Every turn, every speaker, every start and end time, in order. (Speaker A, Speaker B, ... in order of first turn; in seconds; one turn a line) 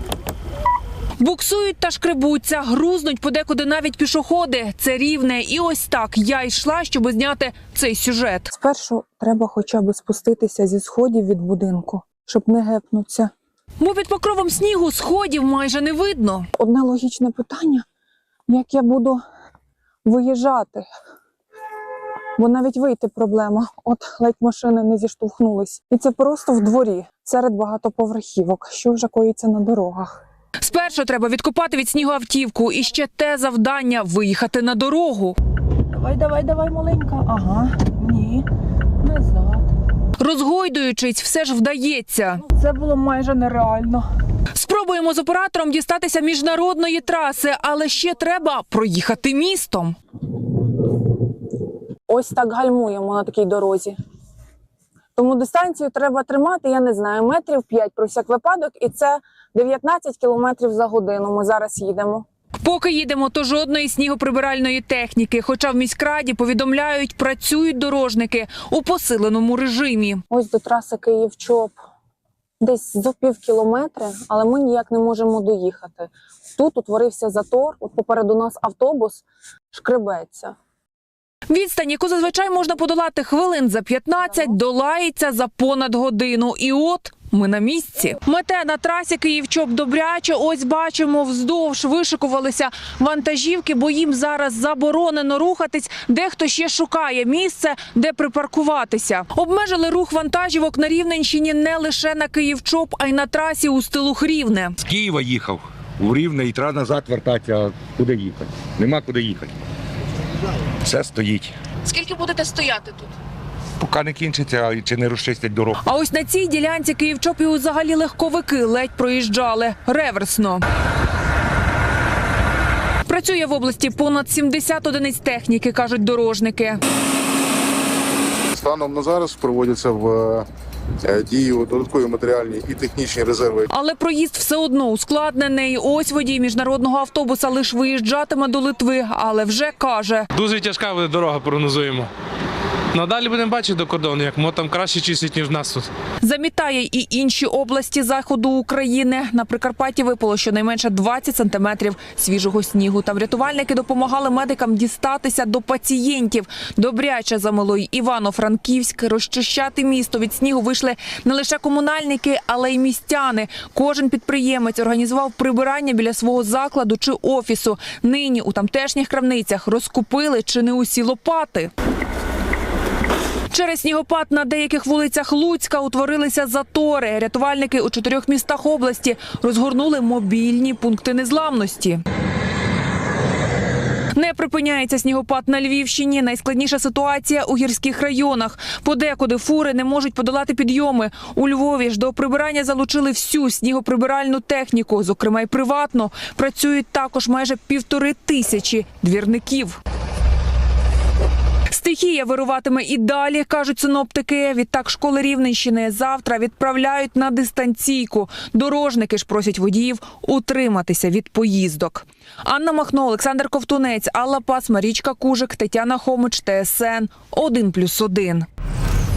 Speaker A: 1.2-8.5
Speaker B: 8.5-13.3
Speaker A: 13.8-16.5
Speaker B: 16.5-17.8
Speaker B: 18.5-19.2
Speaker B: 20.0-20.9
Speaker B: 22.4-30.2
Speaker A: 30.6-35.4
Speaker A: 36.0-36.8
Speaker A: 39.1-39.3
Speaker A: 40.2-43.9
Speaker A: 44.5-50.0
Speaker B: 52.1-53.9
Speaker B: 55.1-62.2
Speaker A: 62.6-70.2
Speaker B: 70.3-71.7
Speaker B: 72.6-80.5
Speaker A: 81.5-104.8
Speaker C: 104.8-109.5
Speaker C: 110.8-111.5
Speaker A: 111.8-113.1
Speaker C: 113.8-115.8
Speaker A: 115.8-120.6
Speaker A: 123.0-126.8
Speaker D: 128.5-130.4
Speaker D: 131.0-133.7
Speaker A: 133.7-140.3
Speaker E: 140.3-142.1
Speaker E: 142.9-145.9
Speaker A: 146.2-171.7
Speaker A: 173.5-182.0
Speaker A: 184.1-199.8
Speaker A: 201.7-218.4